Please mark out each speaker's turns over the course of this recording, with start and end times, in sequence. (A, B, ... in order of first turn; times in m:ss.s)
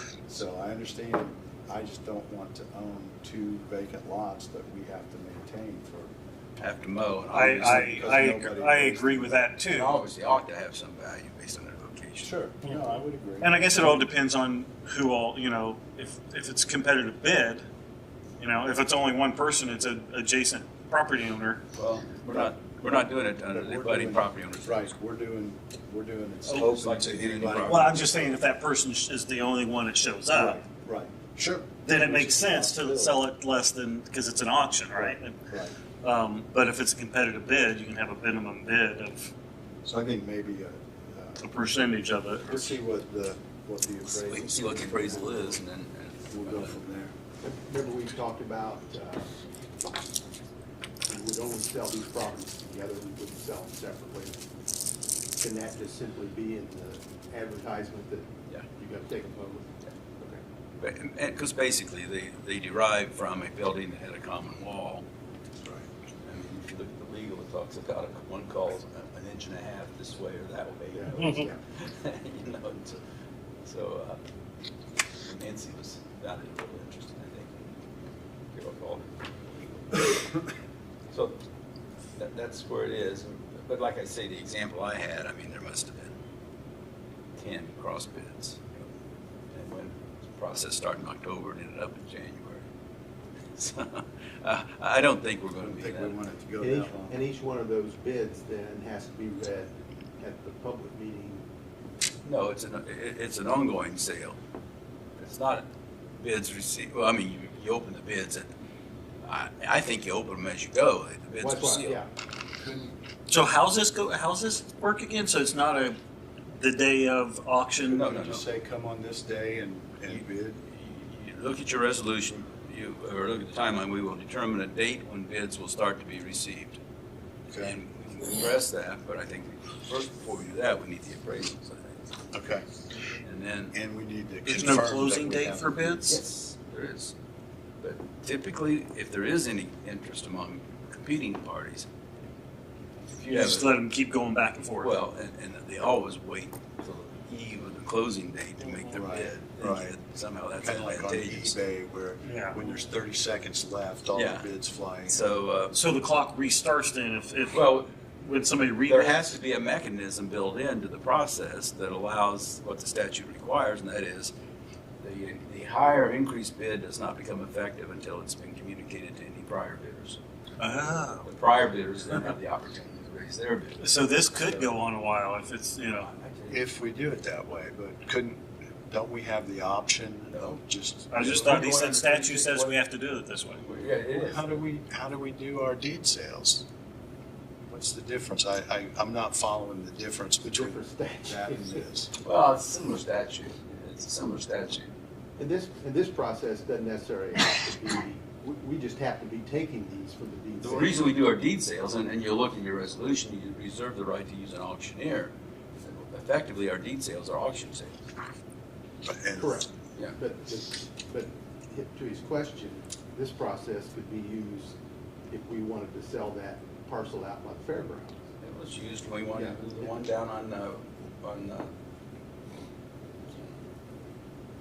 0:00.3-0:06.1 A
0:06.6-0:08.0 B
0:07.3-0:09.5 A
0:07.4-0:09.9 C
0:09.7-0:12.3 B
0:12.2-0:14.0 A
0:13.4-0:17.7 C
0:18.4-0:21.6 C
0:21.7-0:24.8 B
0:22.3-0:23.0 A
0:23.5-0:28.2 A
0:26.5-0:28.0 B
0:27.7-0:30.6 C
0:30.3-0:33.2 A
0:31.8-0:35.4 C
0:35.0-0:35.8 A
0:36.0-0:39.3 C
0:39.8-0:41.5 A
0:41.4-0:42.7 C
0:42.4-0:45.6 A
0:44.1-0:46.8 B
0:46.3-0:47.1 A
0:47.4-0:49.2 C
0:47.8-0:49.2 D
0:51.1-0:54.3 C
0:51.6-0:52.1 D
0:52.6-0:54.2 D
0:55.4-0:58.2 C
0:55.7-0:58.2 D
0:58.8-0:59.4 D
0:58.9-0:59.6 C
1:00.8-1:05.0 B
1:06.2-1:13.0 B
1:13.6-1:14.2 B
1:15.2-1:17.6 B
1:18.5-1:20.4 B
1:21.1-1:21.4 B
1:22.2-1:26.2 B
1:27.4-1:28.9 B
1:29.5-1:32.7 B
1:33.5-1:36.2 B
1:35.6-1:37.2 A
1:36.6-1:36.9 D
1:37.1-1:39.7 C
1:37.7-1:39.5 D
1:40.2-1:41.4 C
1:40.4-1:41.2 D
1:42.2-1:44.4 B
1:45.2-1:45.7 B
1:46.2-1:48.5 B
1:49.2-1:52.0 B
1:51.4-1:52.1 C
1:51.6-1:51.9 D
1:52.6-1:52.9 A
1:53.3-1:56.0 C
1:56.5-1:58.0 C
1:57.8-2:00.6 A
1:57.8-1:58.4 B
2:00.1-2:06.8 B
2:07.5-2:12.2 B
2:07.5-2:07.8 A
2:12.3-2:12.7 A
2:13.2-2:13.8 B
2:13.7-2:16.2 A
2:14.5-2:14.8 D
2:14.6-2:16.1 C
2:16.1-2:17.1 B
2:17.8-2:21.9 B
2:23.2-2:23.7 B
2:23.3-2:25.0 C
2:24.8-2:31.6 B
2:28.9-2:30.0 A
2:30.6-2:35.2 A
2:32.2-2:32.6 C
2:34.1-2:34.5 B
2:35.0-2:35.8 B
2:35.7-2:37.6 C
2:37.5-2:37.9 B
2:38.2-2:39.2 C
2:38.7-2:44.3 B
2:45.0-2:50.2 B
2:50.6-2:51.2 C
2:51.2-2:54.7 B
2:53.8-2:56.1 C
2:55.9-2:56.6 B
2:56.5-3:01.2 A
3:00.3-3:02.8 B
3:01.1-3:03.6 C
3:03.5-3:04.6 B
3:04.2-3:06.7 A
3:07.7-3:12.1 A
3:10.6-3:10.9 C
3:11.0-3:11.7 D
3:12.2-3:14.9 B
3:15.4-3:20.9 D
3:16.4-3:17.6 C
3:20.5-3:20.9 C
3:20.6-3:28.1 B
3:29.0-3:29.7 A
3:29.4-3:29.7 D
3:30.2-3:31.2 D
3:30.2-3:34.7 C
3:32.0-3:32.6 D
3:33.4-3:34.6 D
3:35.4-3:38.1 D
3:36.0-3:36.8 C
3:38.4-3:41.7 B